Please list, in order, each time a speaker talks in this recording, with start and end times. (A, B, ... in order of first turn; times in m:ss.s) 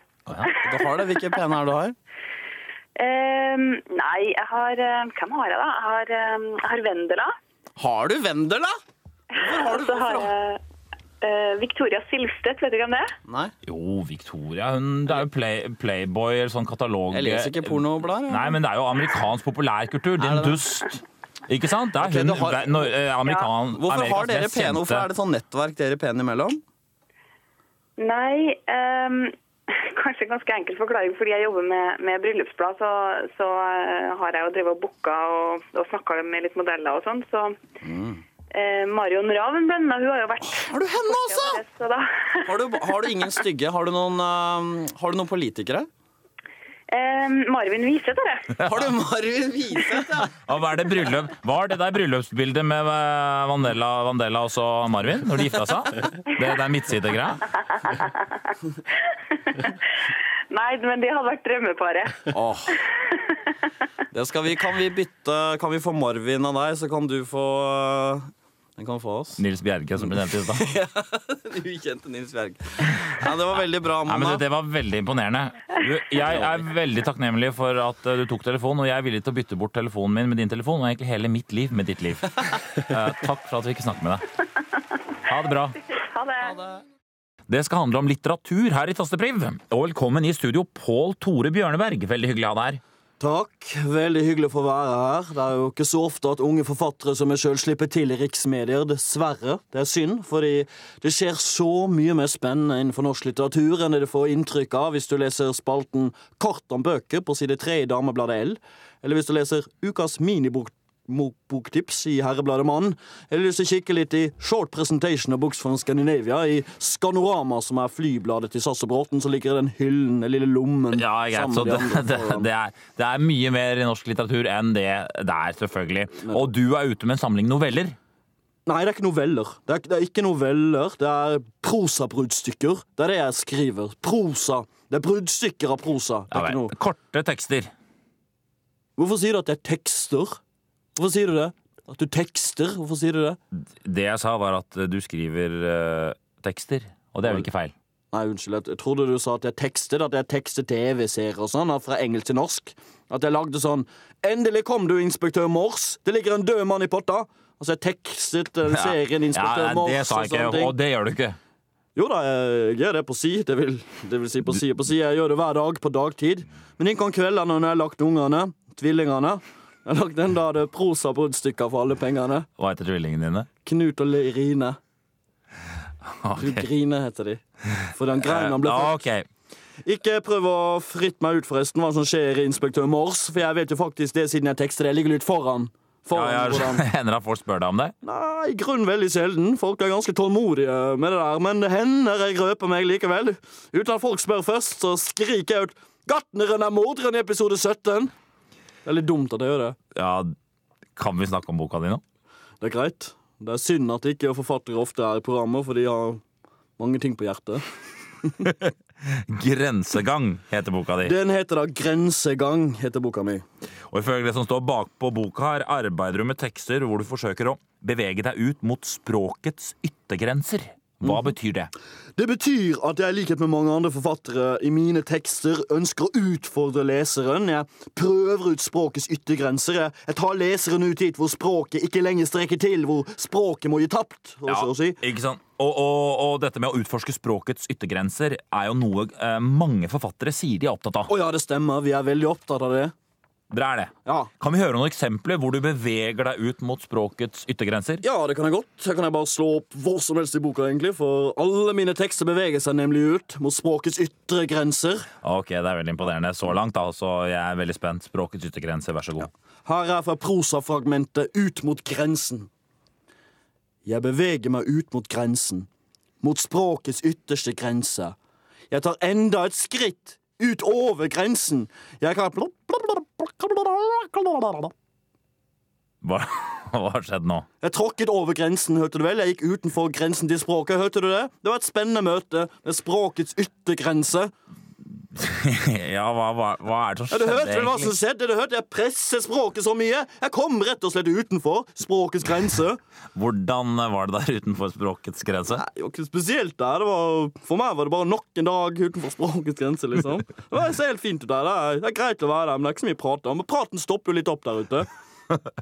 0:00.6-0:02.0 A
0:03.0-0:07.3 B
0:07.8-0:08.8 A
0:09.4-0:10.3 A
0:09.4-0:10.6 B
0:11.2-0:13.1 B
0:13.3-0:13.5 A
0:13.6-0:25.1 C
0:17.1-0:18.6 A
0:20.2-0:20.6 A
0:22.0-0:23.0 A
0:23.7-0:26.6 A
0:28.0-0:37.6 B
0:37.8-0:38.2 A
0:38.5-0:43.1 B
0:40.4-0:41.6 A
0:42.4-0:45.9 A
0:46.9-0:48.6 B
0:48.6-0:48.9 C
0:48.6-0:50.3 A
0:50.4-0:57.4 C
0:57.8-0:58.1 B
0:59.5-0:59.8 B
1:00.5-1:02.2 B
1:02.3-1:02.8 A
1:04.1-1:09.4 A
1:09.4-1:10.7 C
1:10.0-1:14.4 A
1:14.0-1:24.2 C
1:16.3-1:16.6 A
1:25.3-1:25.8 C
1:26.0-1:26.6 B
1:27.5-1:32.8 C
1:33.2-2:02.5 A
2:00.9-2:08.0 C
2:06.2-2:06.5 A
2:08.6-2:16.7 A
2:16.3-2:17.7 C
2:19.0-2:20.4 A
2:21.0-2:23.4 A
2:23.5-2:27.7 C
2:28.1-2:40.7 A
2:38.7-2:41.4 C
2:42.0-2:52.5 A
2:52.6-2:53.5 C
2:53.6-2:54.8 A
2:56.0-2:56.7 C
2:56.4-2:59.0 A
2:58.1-2:59.2 C
2:59.8-3:06.8 A
3:06.1-3:07.9 C
3:08.0-3:18.1 A
3:18.8-3:19.8 A
3:19.9-3:20.3 C
3:21.0-3:22.0 C
3:22.6-3:26.2 A
3:26.8-3:27.6 A
3:28.4-3:31.2 C
3:31.0-3:33.4 A
3:33.9-3:41.7 C
3:42.2-3:55.0 A
3:54.4-4:01.1 C
4:01.1-4:02.9 A
4:03.5-4:08.0 C
4:04.0-4:04.3 A
4:08.0-4:15.1 A
4:15.2-4:19.3 C
4:19.6-4:22.5 A
4:23.8-4:25.7 A
4:26.2-4:28.1 A
4:28.7-4:34.7 A
4:36.0-4:37.5 C
4:37.6-4:44.3 A
4:45.1-4:47.9 C
4:47.1-4:52.8 A
4:53.1-4:55.6 C
4:55.5-5:04.9 A